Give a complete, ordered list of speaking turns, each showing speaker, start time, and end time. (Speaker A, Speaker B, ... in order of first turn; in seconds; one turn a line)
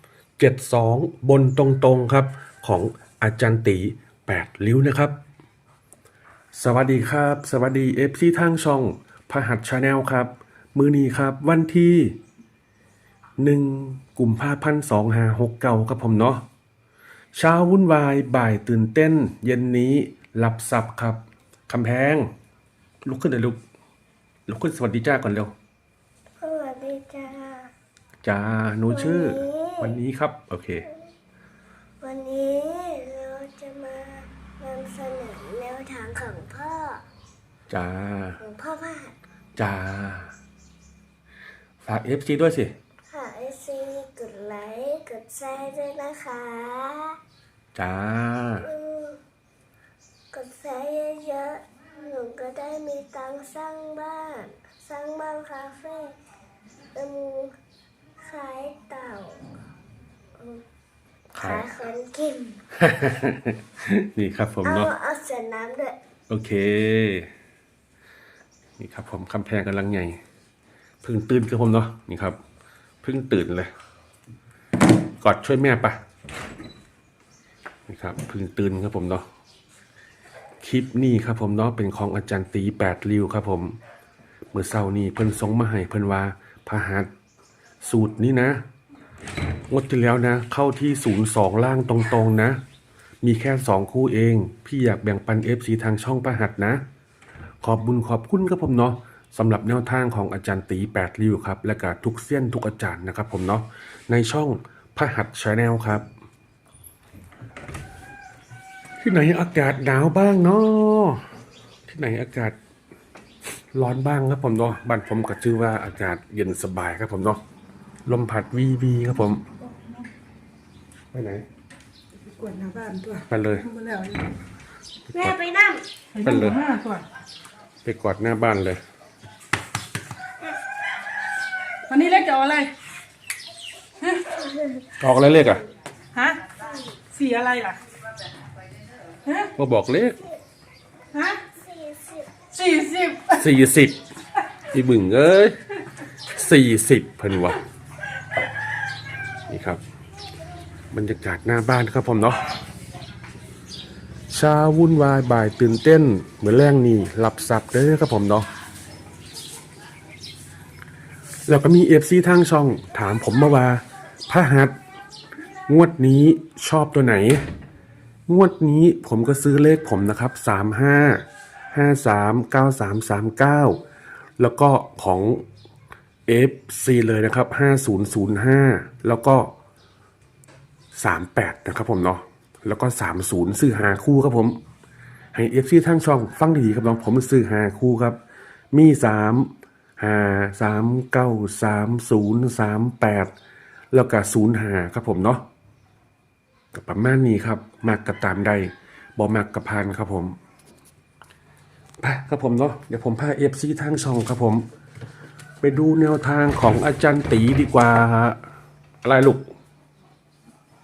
Speaker A: 0.4-5.2
Speaker A: 6.5-12.2
Speaker A: 13.4-16.4
Speaker A: 17.3-22.3
Speaker A: 23.0-23.6
Speaker A: 24.5-25.5
Speaker B: 26.4-27.7
Speaker A: 28.2-30.9
Speaker B: 28.9-29.9
Speaker B: 32.0-37.0
Speaker A: 37.7-38.4
Speaker B: 38.4-39.1
Speaker A: 39.5-40.3
Speaker A: 41.8-42.7
Speaker B: 43.1-47.2
Speaker A: 47.7-48.6
Speaker B: 48.6-49.2
Speaker B: 50.3-56.1
Speaker B: 56.9-57.5
Speaker B: 58.2-59.4
Speaker B: 60.4-60.6
Speaker A: 61.3-61.7
Speaker B: 61.4-62.6
Speaker A: 62.8-64.9
Speaker B: 64.6-66.0
Speaker A: 66.3-67.3
Speaker A: 68.8-70.2
Speaker A: 71.0-72.4
Speaker A: 73.0-73.7
Speaker A: 75.2-76.0
Speaker A: 77.9-79.2
Speaker A: 80.6-83.8
Speaker A: 84.5-87.1
Speaker A: 87.8-88.6
Speaker A: 89.7-92.6
Speaker A: 93.2-96.8
Speaker A: 97.6-106.0
Speaker A: 109.0-111.2
Speaker A: 111.9-112.5
Speaker A: 113.7-117.4
Speaker A: 118.0-119.5
Speaker A: 121.1-121.4
Speaker C: 122.2-124.3
Speaker A: 123.3-123.7
Speaker A: 125.1-125.4
Speaker B: 125.1-125.9
Speaker C: 126.1-127.0
Speaker A: 126.2-126.6
Speaker A: 127.8-128.8
Speaker C: 131.9-132.7
Speaker A: 135.0-135.7
Speaker C: 136.1-136.5
Speaker C: 137.1-137.8
Speaker A: 139.5-140.2
Speaker C: 141.1-141.4
Speaker B: 141.4-142.4
Speaker C: 142.5-143.4
Speaker A: 143.3-144.0
Speaker A: 144.6-145.6
Speaker A: 146.3-147.6
Speaker A: 149.5-149.8
Speaker A: 150.9-152.4
Speaker A: 154.3-158.5
Speaker A: 161.5-164.7
Speaker A: 165.7-167.4
Speaker A: 168.3-173.8
Speaker A: 174.4-175.4
Speaker A: 176.3-179.5
Speaker A: 180.9-184.6
Speaker A: 185.3-188.2
Speaker A: 188.7-193.3
Speaker A: 193.9-195.4
Speaker A: 196.7-200.4
Speaker A: 202.0-204.6
Speaker A: 205.6-208.4
Speaker A: 209.0-209.4